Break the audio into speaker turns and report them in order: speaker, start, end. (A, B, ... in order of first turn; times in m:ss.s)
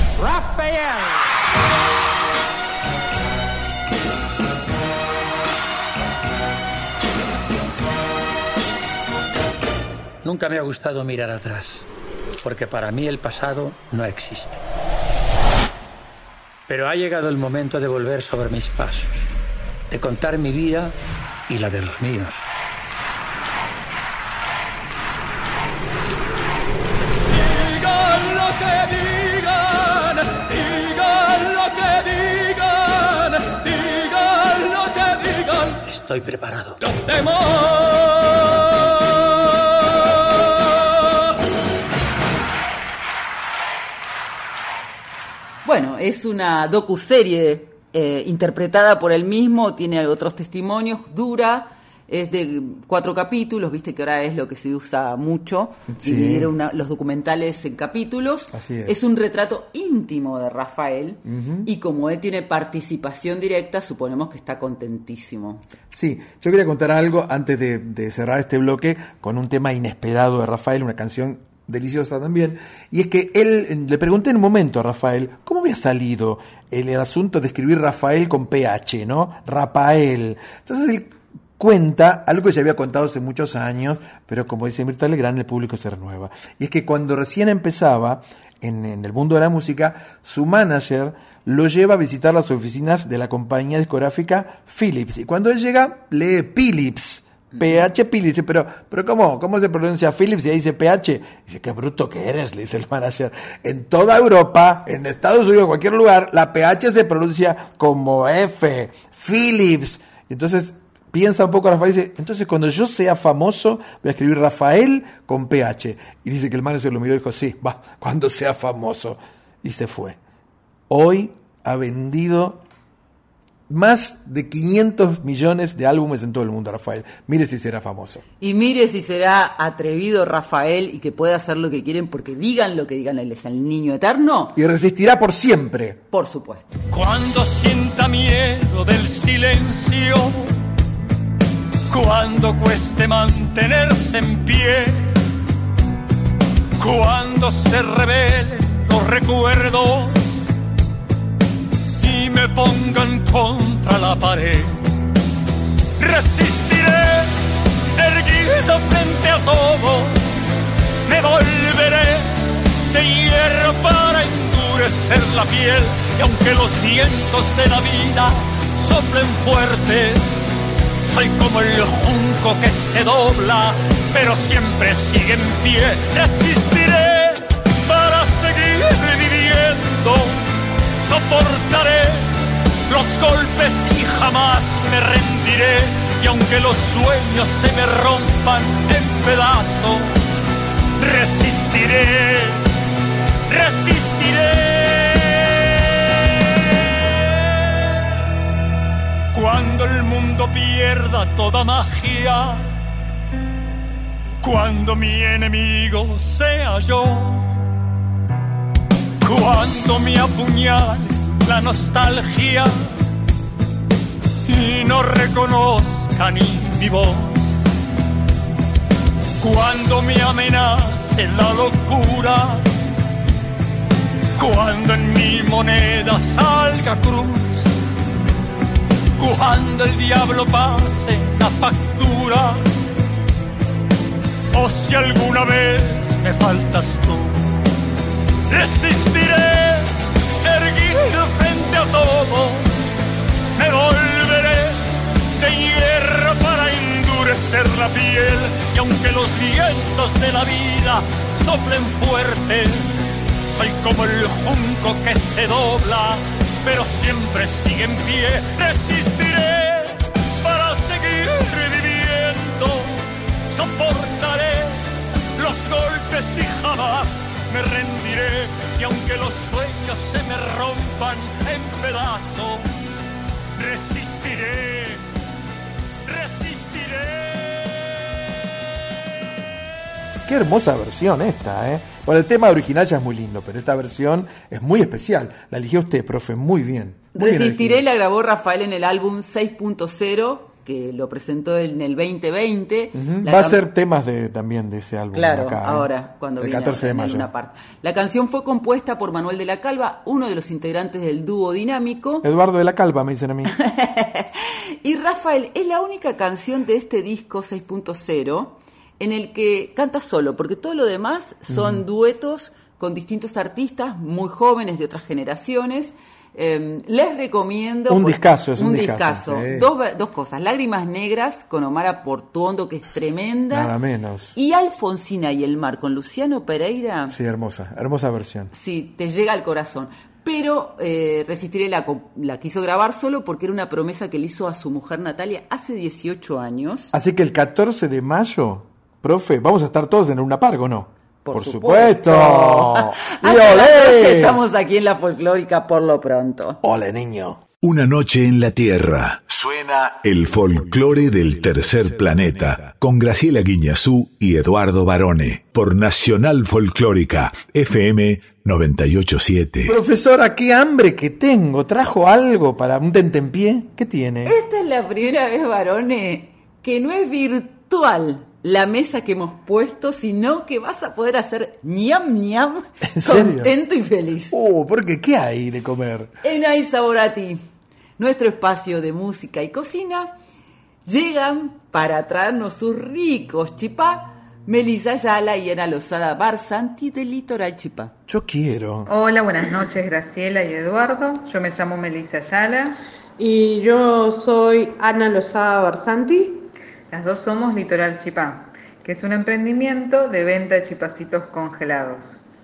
0:00.2-0:01.0 A
0:10.2-0:11.8 B
0:12.4-0:14.6 B
0:16.7-0:19.2 B
0:19.9-0:21.0 B
0:21.5-0:22.4 B
0:27.3-0:35.8 A
0:35.9-0:36.8 B
0:36.8-0:38.0 A
0:45.6-1:05.6 C
0:55.9-0:56.5 D
0:58.5-0:59.0 D
1:01.2-1:01.7 D
1:05.9-2:00.2 D
1:37.5-1:37.8 C
2:00.9-2:02.6 D
2:03.7-2:08.2 D
2:08.4-2:14.6 C
2:14.6-2:16.0 D
2:16.1-2:16.8 C
2:16.9-2:20.5 A
2:21.9-2:25.2 A
2:26.8-2:30.5 A
2:32.0-2:34.8 A
2:36.0-2:37.3 A
2:38.0-2:40.2 A
2:41.1-2:42.4 A
2:42.9-2:50.5 A
2:51.0-3:00.4 A
3:01.0-3:02.3 A
3:02.9-3:10.1 A
3:11.0-3:12.6 A
3:13.5-3:15.8 A
3:17.4-3:18.1 A
3:19.3-3:22.7 A
3:24.4-3:27.5 A
3:29.2-3:32.9 A
3:34.5-3:37.6 A
3:39.4-3:42.7 A
3:44.4-3:47.8 A
3:49.2-3:52.7 A
3:54.5-3:57.4 A
3:58.5-3:59.9 A
4:00.4-4:02.7 A
4:03.6-4:04.8 A
4:05.4-4:12.9 A
4:13.5-4:23.0 A
4:23.5-4:24.8 A
4:25.4-4:32.6 A
4:33.6-4:35.0 A
4:36.1-4:37.7 A
4:40.3-4:47.8 D
4:47.2-4:53.6 C
4:52.9-4:55.9 D
4:55.1-5:02.3 C
4:56.4-4:57.3 D
5:02.2-5:03.5 D
5:03.6-5:23.7 C
5:11.5-5:11.8 D
5:17.9-5:19.7 D
5:23.5-5:24.4 D
5:24.4-5:27.2 C
5:27.1-5:28.5 D
5:28.5-5:36.9 C
5:36.9-5:44.4 D
5:41.2-5:46.6 C
5:46.6-5:47.4 D
5:47.6-5:59.7 E
5:59.6-6:04.3 D
6:04.2-6:14.4 C
6:12.8-6:13.5 D
6:14.3-6:16.1 D
6:16.2-6:17.5 C
6:18.0-6:20.1 C
6:20.9-6:27.9 C
6:28.1-6:28.9 D
6:28.9-6:32.8 F
6:33.2-6:36.5 G
6:36.9-6:42.2 F